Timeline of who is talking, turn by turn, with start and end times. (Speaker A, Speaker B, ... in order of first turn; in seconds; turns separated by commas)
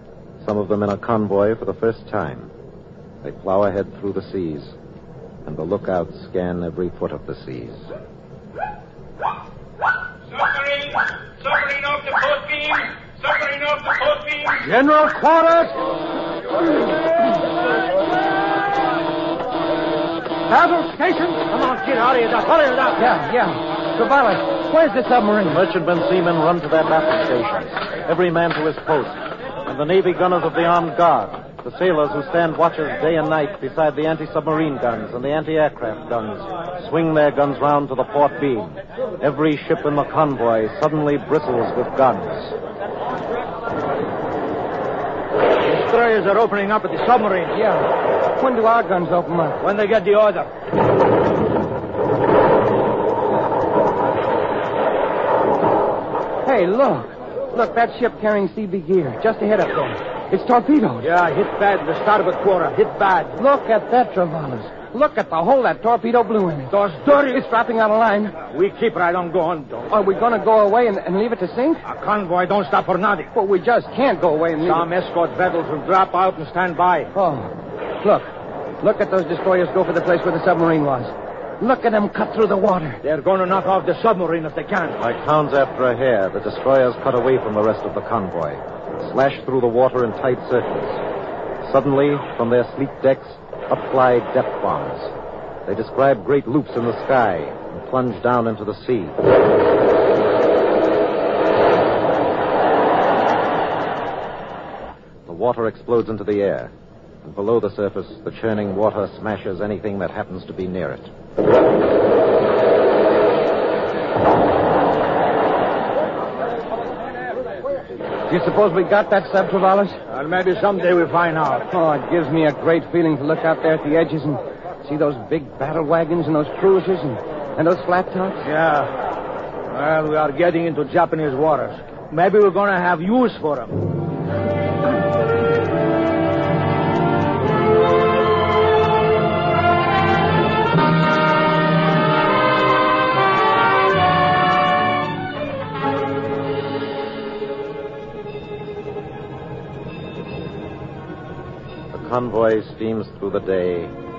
Speaker A: 0.4-2.5, Speaker A: 3.2-4.7, Speaker A: 5.4-7.9, Speaker B: 10.3-15.7, Speaker B: 20.9-23.0, Speaker C: 23.0-25.6, Speaker A: 25.4-42.5, Speaker B: 45.6-47.6, Speaker C: 47.6-47.8, Speaker C: 48.4-49.6, Speaker B: 49.6-50.5, Speaker C: 56.4-61.0, Speaker B: 61.0-63.3, Speaker C: 63.4-68.4, Speaker B: 66.7-67.4, Speaker B: 68.4-69.9, Speaker C: 69.9-71.8, Speaker B: 71.8-73.3, Speaker C: 73.3-74.9, Speaker B: 74.6-77.1, Speaker C: 77.1-78.3, Speaker C: 78.8-83.0, Speaker B: 83.0-85.0, Speaker A: 85.0-91.0, Speaker A: 91.6-95.1, Speaker A: 95.7-99.2, Speaker A: 105.2-106.7, Speaker A: 107.2-111.1, Speaker C: 118.3-120.0, Speaker B: 120.1-121.6, Speaker C: 121.7-128.4, Speaker B: 128.4-128.9, Speaker B: 129.7-133.8, Speaker A: 151.9-153.9